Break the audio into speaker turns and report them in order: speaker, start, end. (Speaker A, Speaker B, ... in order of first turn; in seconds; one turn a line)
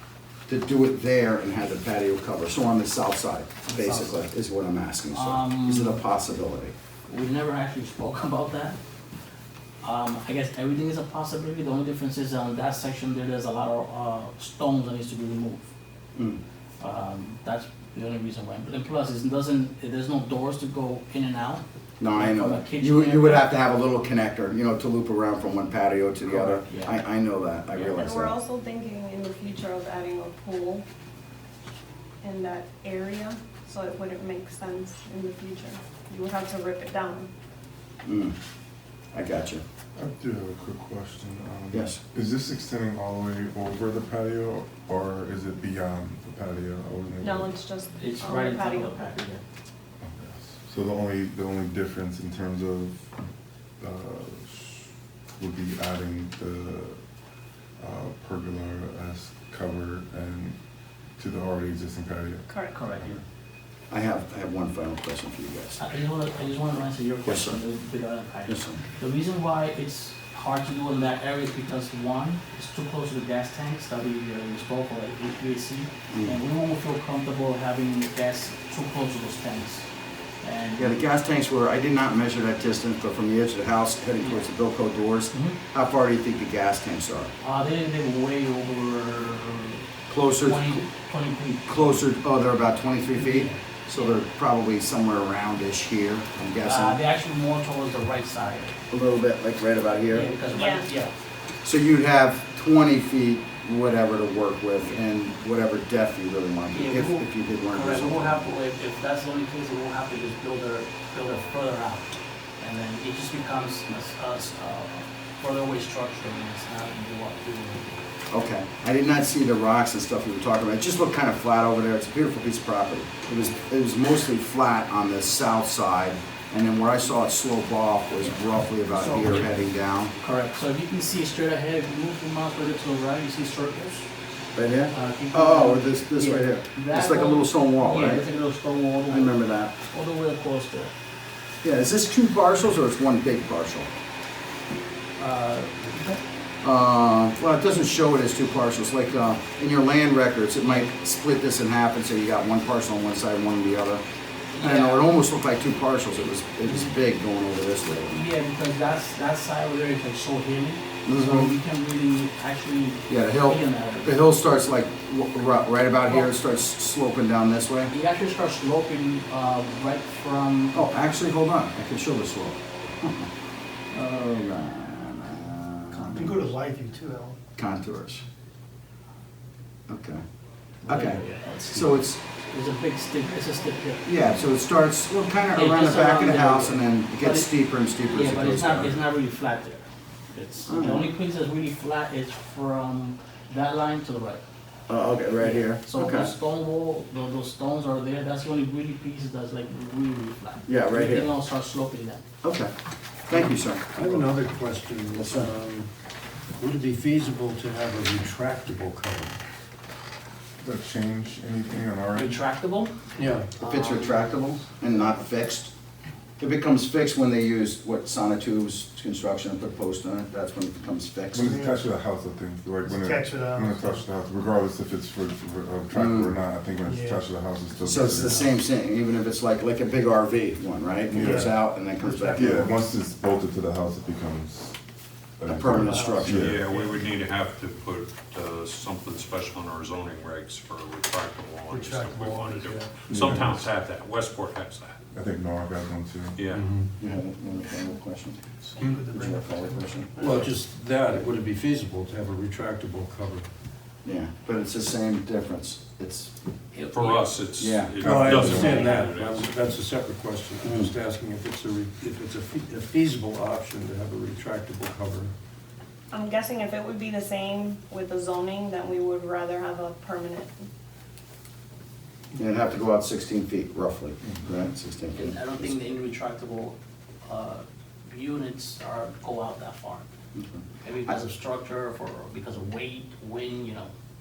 Speaker A: 0.5-6.7
Speaker B: 3.6-4.3
Speaker B: 5.1-6.0
Speaker B: 7.1-8.8
Speaker B: 9.8-15.6
Speaker A: 16.1-16.4
Speaker B: 16.8-23.5
Speaker A: 22.0-28.4
Speaker B: 26.3-26.9
Speaker C: 27.9-30.8
Speaker C: 32.2-37.3
Speaker A: 38.0-38.3
Speaker A: 39.1-39.6
Speaker D: 40.0-47.5
Speaker A: 41.7-42.0
Speaker C: 47.2-49.1
Speaker B: 48.0-49.4
Speaker D: 50.0-53.0
Speaker D: 53.8-57.0
Speaker D: 57.8-60.6
Speaker D: 61.1-63.2
Speaker B: 62.7-63.2
Speaker A: 63.9-65.8
Speaker B: 65.8-79.9
Speaker A: 67.2-67.6
Speaker A: 68.5-68.8
Speaker A: 76.1-76.4
Speaker B: 80.4-81.0
Speaker A: 80.8-87.3
Speaker B: 84.2-84.5
Speaker B: 85.3-85.6
Speaker B: 87.4-92.1
Speaker A: 90.1-90.8
Speaker A: 91.7-97.0
Speaker B: 93.2-94.2
Speaker B: 96.6-98.8
Speaker A: 98.9-100.3
Speaker B: 100.1-101.1
Speaker C: 100.5-100.9
Speaker A: 101.6-108.5
Speaker B: 106.7-112.1
Speaker B: 112.6-118.0
Speaker A: 118.3-130.1
Speaker B: 128.9-129.5
Speaker B: 130.2-134.1
Speaker A: 134.5-138.3
Speaker B: 134.9-140.9
Speaker A: 139.1-139.7
Speaker A: 141.6-143.9
Speaker B: 145.2-146.2
Speaker A: 146.6-154.0
Speaker B: 150.6-150.9
Speaker B: 154.5-155.1
Speaker A: 154.6-158.2
Speaker B: 156.7-156.9
Speaker B: 158.1-164.2
Speaker A: 161.0-161.6
Speaker A: 163.1-167.9
Speaker B: 166.1-166.3
Speaker B: 167.9-170.8
Speaker A: 170.7-173.3
Speaker A: 173.9-176.5
Speaker E: 175.9-177.4
Speaker A: 177.6-178.2
Speaker A: 179.9-180.2
Speaker B: 180.8-184.2
Speaker A: 180.8-182.2
Speaker A: 184.0-188.9
Speaker B: 185.5-187.5
Speaker B: 188.1-194.4
Speaker A: 190.6-191.1
Speaker A: 194.9-196.3
Speaker B: 195.4-202.2
Speaker A: 200.7-201.3
Speaker A: 202.4-202.7
Speaker A: 203.3-203.9
Speaker F: 203.3-205.9
Speaker A: 205.1-205.5
Speaker F: 206.5-209.4
Speaker D: 210.6-212.4
Speaker B: 212.1-214.6
Speaker F: 213.2-213.5
Speaker A: 213.6-215.7
Speaker A: 216.4-221.5
Speaker D: 221.3-228.5
Speaker E: 221.4-221.8
Speaker E: 222.8-224.0
Speaker A: 225.9-226.3
Speaker E: 226.8-227.2
Speaker A: 227.8-232.8
Speaker D: 231.1-231.7
Speaker E: 231.1-232.8
Speaker D: 232.3-234.8
Speaker D: 235.4-236.7
Speaker A: 235.4-236.5
Speaker E: 235.5-237.0
Speaker G: 236.1-245.0
Speaker F: 241.7-243.5
Speaker D: 243.1-243.7
Speaker D: 245.1-246.4
Speaker G: 246.3-246.7
Speaker F: 246.5-246.9
Speaker A: 247.0-250.4
Speaker E: 248.6-250.5
Speaker F: 250.2-253.5
Speaker A: 254.0-256.3
Speaker B: 256.7-257.4
Speaker G: 256.9-259.6
Speaker A: 257.6-258.0
Speaker F: 258.0-265.3
Speaker D: 258.2-258.9
Speaker B: 258.6-259.1
Speaker A: 260.6-260.9
Speaker C: 266.1-270.6
Speaker A: 272.4-275.9
Speaker B: 275.1-280.0
Speaker A: 280.3-281.2
Speaker B: 280.8-283.9